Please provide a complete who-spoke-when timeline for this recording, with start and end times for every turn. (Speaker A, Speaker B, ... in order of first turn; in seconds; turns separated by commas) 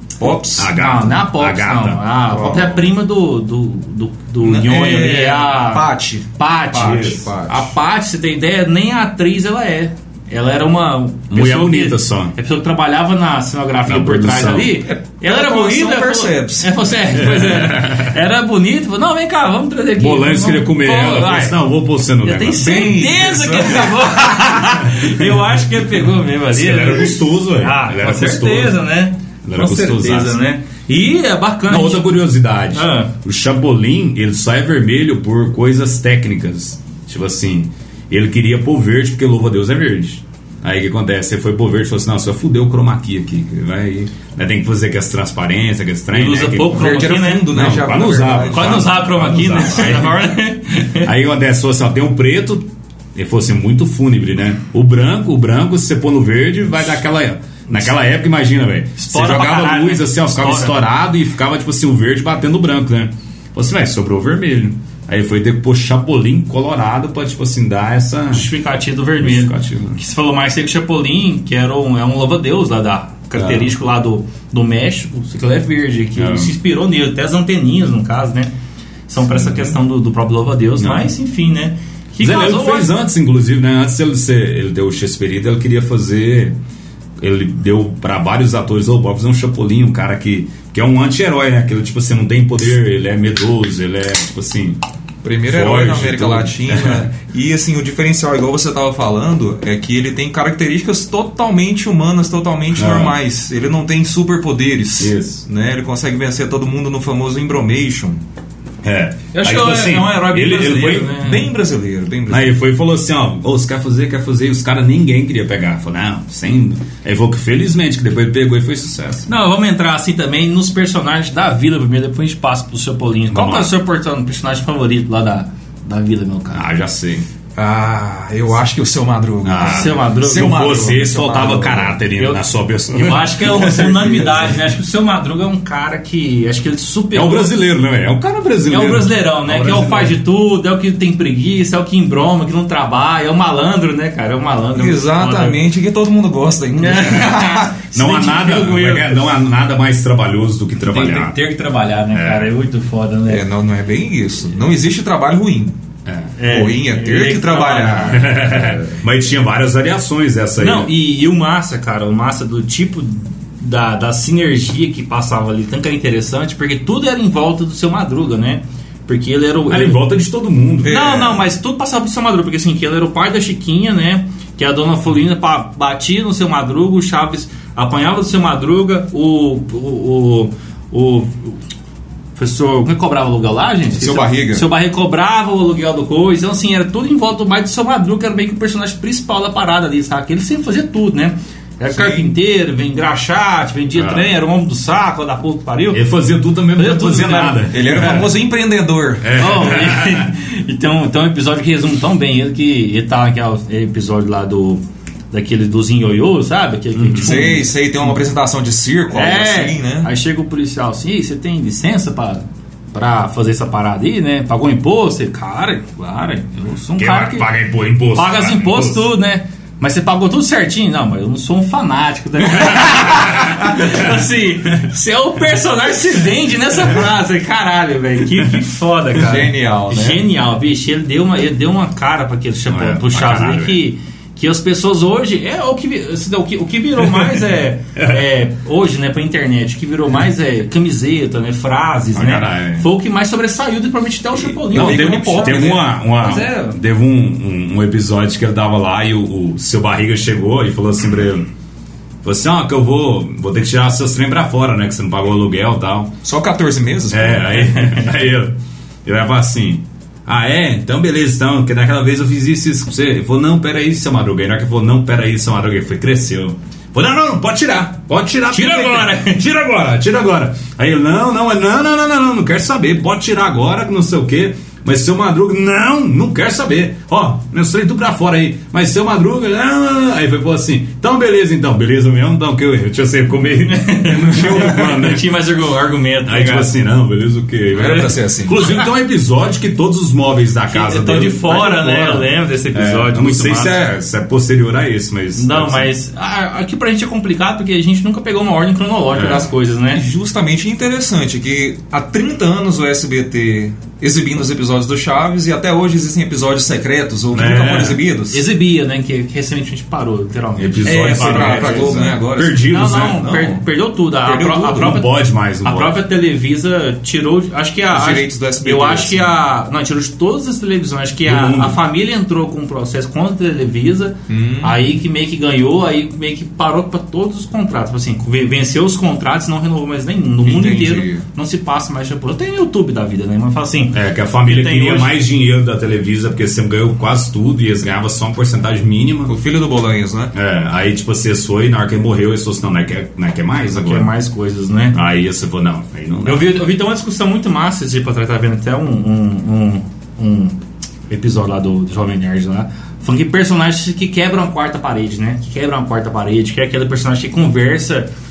Speaker A: 0.2-0.7, Speaker B: 0.6-2.0, Speaker C: 0.7-21.6, Speaker A: 2.3-2.8, Speaker A: 4.4-7.7, Speaker B: 11.3-12.3, Speaker B: 13.8-14.8, Speaker A: 14.8-16.7, Speaker B: 17.1-18.1, Speaker B: 20.0-22.9, Speaker C: 22.2-32.1, Speaker A: 22.6-24.3, Speaker B: 24.9-25.2, Speaker B: 26.5-28.8, Speaker B: 29.4-30.4, Speaker B: 31.7-50.2, Speaker C: 32.7-33.1, Speaker C: 46.1-47.5, Speaker A: 46.7-48.9, Speaker C: 48.5-51.1, Speaker B: 51.0-68.5, Speaker C: 59.0-60.8, Speaker C: 68.3-78.5, Speaker B: 69.2-70.0, Speaker B: 73.3-73.7, Speaker B: 76.2-76.5, Speaker C: 79.1-82.9, Speaker B: 79.2-79.8, Speaker B: 80.8-81.1, Speaker B: 82.2-86.6, Speaker B: 87.2-94.8, Speaker A: 95.2-108.2, Speaker B: 95.5-97.1, Speaker B: 102.7-103.2, Speaker B: 105.0-105.4, Speaker B: 108.8-111.2, Speaker C: 109.3-111.5, Speaker A: 111.2-112.6, Speaker B: 112.3-119.3, Speaker C: 119.3-126.7, Speaker B: 123.3-123.7, Speaker B: 126.5-127.2, Speaker A: 127.5-132.0, Speaker B: 129.4-134.4, Speaker C: 129.6-130.7, Speaker C: 132.2-137.5, Speaker B: 137.1-140.2, Speaker C: 138.7-145.6, Speaker A: 144.7-147.8, Speaker C: 146.7-149.3, Speaker B: 147.9-151.3, Speaker C: 150.8-153.4, Speaker B: 152.1-152.5, Speaker A: 153.3-155.7, Speaker B: 156.1-156.3, Speaker C: 156.4-158.8, Speaker A: 156.4-158.6, Speaker B: 158.1-160.9, Speaker C: 160.6-170.0, Speaker B: 169.7-171.0, Speaker A: 170.8-171.4, Speaker C: 170.8-181.6, Speaker C: 182.4-196.0, Speaker A: 183.9-184.7, Speaker A: 191.9-192.3, Speaker B: 193.9-194.3, Speaker B: 195.9-198.3, Speaker C: 196.8-197.7, Speaker A: 197.7-199.3, Speaker B: 199.2-200.3, Speaker C: 199.3-207.7, Speaker B: 206.9-207.5, Speaker A: 207.2-210.1, Speaker C: 209.1-217.5, Speaker B: 217.0-219.1, Speaker C: 218.1-246.8, Speaker A: 229.2-230.2, Speaker B: 232.7-233.8, Speaker B: 242.1-242.9, Speaker A: 244.5-245.8, Speaker B: 244.7-251.4, Speaker B: 252.2-256.1, Speaker A: 256.2-257.7, Speaker B: 257.1-285.2, Speaker C: 257.6-258.1, Speaker C: 268.5-269.4, Speaker C: 283.7-286.7, Speaker B: 286.2-295.9, Speaker A: 287.7-288.6, Speaker C: 290.7-293.8, Speaker C: 295.3-300.0, Speaker B: 299.1-299.5, Speaker A: 299.9-308.4, Speaker B: 307.3-308.0, Speaker C: 308.3-315.1, Speaker B: 310.6-313.2, Speaker A: 310.8-313.6, Speaker A: 314.2-314.9, Speaker B: 314.7-316.0, Speaker C: 315.6-335.1, Speaker A: 317.9-319.4, Speaker B: 321.2-321.8, Speaker A: 324.3-324.8, Speaker A: 330.4-331.2, Speaker B: 333.9-339.3, Speaker A: 339.3-340.3, Speaker B: 340.3-344.1, Speaker C: 343.7-345.0, Speaker B: 344.9-346.5, Speaker C: 346.2-350.6, Speaker C: 351.1-358.1